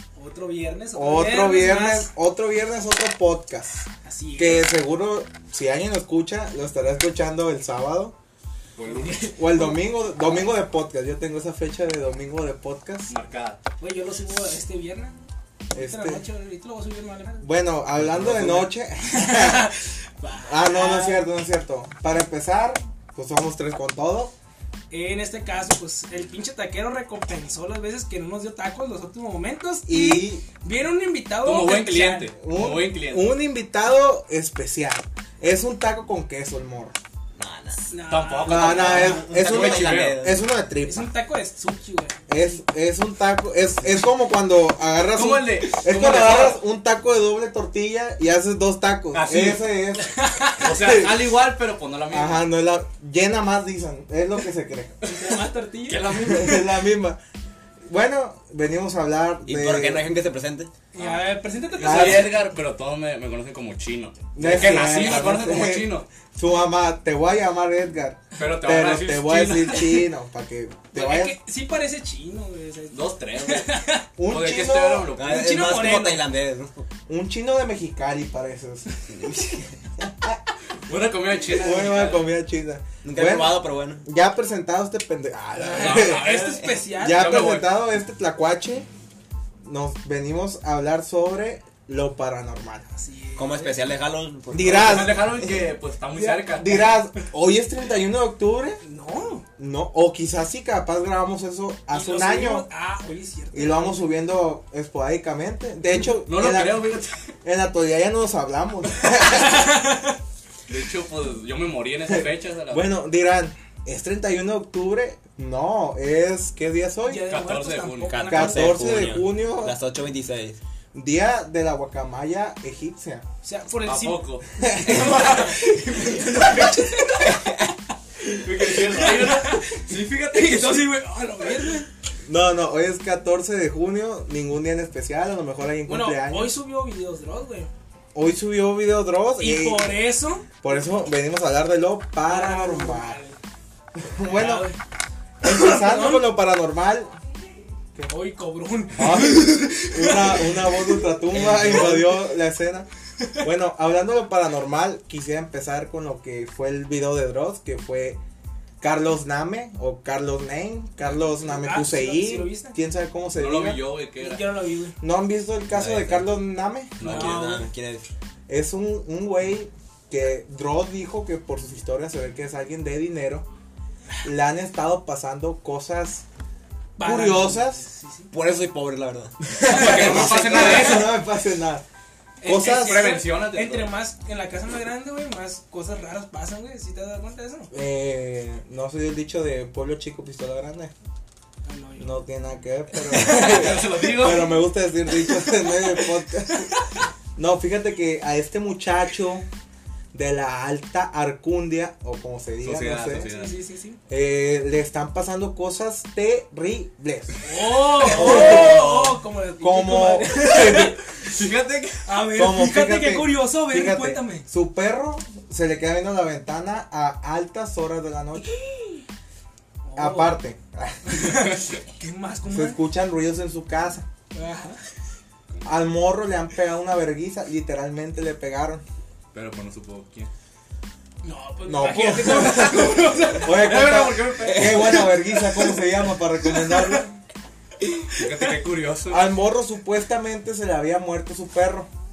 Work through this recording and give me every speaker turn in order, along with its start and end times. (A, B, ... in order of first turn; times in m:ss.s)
0:00.2-0:02.1 A
0:00.9-0:03.8 B
0:04.0-0:04.7 A
0:04.4-0:08.1 B
0:08.8-0:09.4 C
0:08.9-0:09.8 A
0:09.3-0:13.1 B
0:13.1-0:13.6 C
0:13.8-0:15.2 A
0:15.7-0:16.2 B
0:15.7-0:17.5 A
0:17.4-0:19.7 B
0:18.0-0:18.6 D
0:18.2-0:18.6 C
0:19.1-0:21.3 A
0:20.4-0:24.3 B
0:24.9-0:32.3 A
0:29.8-0:30.4 B
0:31.4-0:33.3 C
0:32.4-0:37.0 B
0:37.4-0:37.9 D
0:37.9-0:39.2 A
0:38.1-0:40.3 C
0:38.4-0:41.1 B
0:38.5-0:40.4 D
0:40.8-0:42.4 A
0:42.3-0:51.4 B
0:45.1-0:46.6 C
0:49.1-0:49.6 C
0:50.0-0:50.7 A
0:50.6-0:52.5 C
0:52.1-0:55.0 B
0:55.0-0:56.1 A
0:55.8-0:56.8 C
0:56.2-0:57.2 B
0:57.9-1:00.1 B
0:59.4-1:00.7 D
1:00.9-1:02.4 A
1:01.0-1:06.1 C
1:01.8-1:02.4 B
1:04.3-1:11.4 B
1:08.3-1:10.0 C
1:10.9-1:14.1 A
1:12.9-1:15.6 C
1:14.2-1:15.1 B
1:15.2-1:16.8 D
1:15.2-1:16.2 A
1:17.1-1:18.9 B
1:19.1-1:19.7 D
1:20.0-1:20.4 B
1:20.8-1:22.3 C
1:21.4-1:26.3 B
1:23.0-1:24.0 D
1:25.7-1:27.4 A
1:25.7-1:27.7 C
1:27.0-1:28.8 B
1:29.6-1:32.9 B
1:32.9-1:33.8 A
1:33.4-1:35.5 D
1:34.5-1:35.4 B
1:34.6-1:36.8 C
1:36.1-1:37.0 A
1:36.5-1:38.8 B
1:38.8-1:39.4 A
1:39.6-1:42.6 B
1:41.9-1:44.0 A
1:43.5-1:49.7 B
1:46.2-1:47.3 C
1:49.2-1:50.1 A
1:50.7-1:52.9 C
1:52.1-1:57.2 B
1:57.0-1:58.8 A
1:57.3-1:58.1 C
1:58.1-2:00.6 D
1:58.2-1:59.8 B
2:00.9-2:03.2 B
2:03.4-2:07.6 A
2:03.8-2:04.4 C
2:04.6-2:05.1 B
2:05.1-2:05.4 C
2:08.3-2:10.9 C
2:08.4-2:11.9 A
2:12.2-2:16.5 B
2:15.8-2:17.7 A
2:18.1-2:20.0 B
2:19.4-2:20.5 A
2:20.6-2:23.2 B
2:22.2-2:23.4 A
2:24.0-2:24.7 B
2:24.2-2:24.8 A
2:25.4-2:27.1 B
2:25.4-2:26.3 A
2:28.1-2:30.9 A
2:28.9-2:32.9 B
2:31.4-2:32.0 D
2:33.4-2:38.2 B
2:38.8-2:43.8 B
2:41.4-2:42.8 A
2:43.3-2:44.4 C
2:44.2-2:44.9 A
2:45.0-2:47.1 B
2:45.7-2:46.4 D
2:47.0-2:47.5 C
2:47.0-2:48.1 D
2:47.0-2:47.6 A
2:48.5-2:53.5 B
2:54.2-2:56.2 B
2:57.0-2:58.3 A
2:57.0-2:57.8 B
2:58.3-3:00.6 D
2:59.5-3:01.8 B
2:59.6-3:01.0 A
2:59.6-3:01.2 C
3:02.4-3:07.7 A
3:02.4-3:03.1 B
3:02.6-3:03.9 C
3:07.7-3:10.9 B
3:11.6-3:12.2 A
3:12.0-3:16.7 B
3:13.1-3:14.6 C
3:15.3-3:16.8 A
3:17.4-3:19.5 B
3:20.1-3:23.3 B
3:22.6-3:23.5 C
3:23.2-3:24.0 A
3:24.1-3:27.3 B
3:27.4-3:31.0 A
3:27.8-3:29.1 C
3:28.0-3:29.0 B
3:29.6-3:31.0 B
3:30.6-3:32.2 C
3:32.0-3:34.4 A
3:32.3-3:38.5 B
3:38.4-3:39.0 A
3:39.8-3:40.4 A
3:40.0-3:41.6 B
3:41.0-3:42.8 A
3:42.5-3:44.1 B
3:44.3-3:44.8 A
3:45.6-3:48.8 B
3:49.3-3:50.3 C
3:51.2-3:53.9 A
3:51.6-3:57.1 B
3:53.4-3:55.0 C
3:54.5-3:55.0 D
3:54.8-3:55.8 A
3:56.5-3:57.0 A
3:58.2-3:59.3 C
3:59.1-4:01.9 B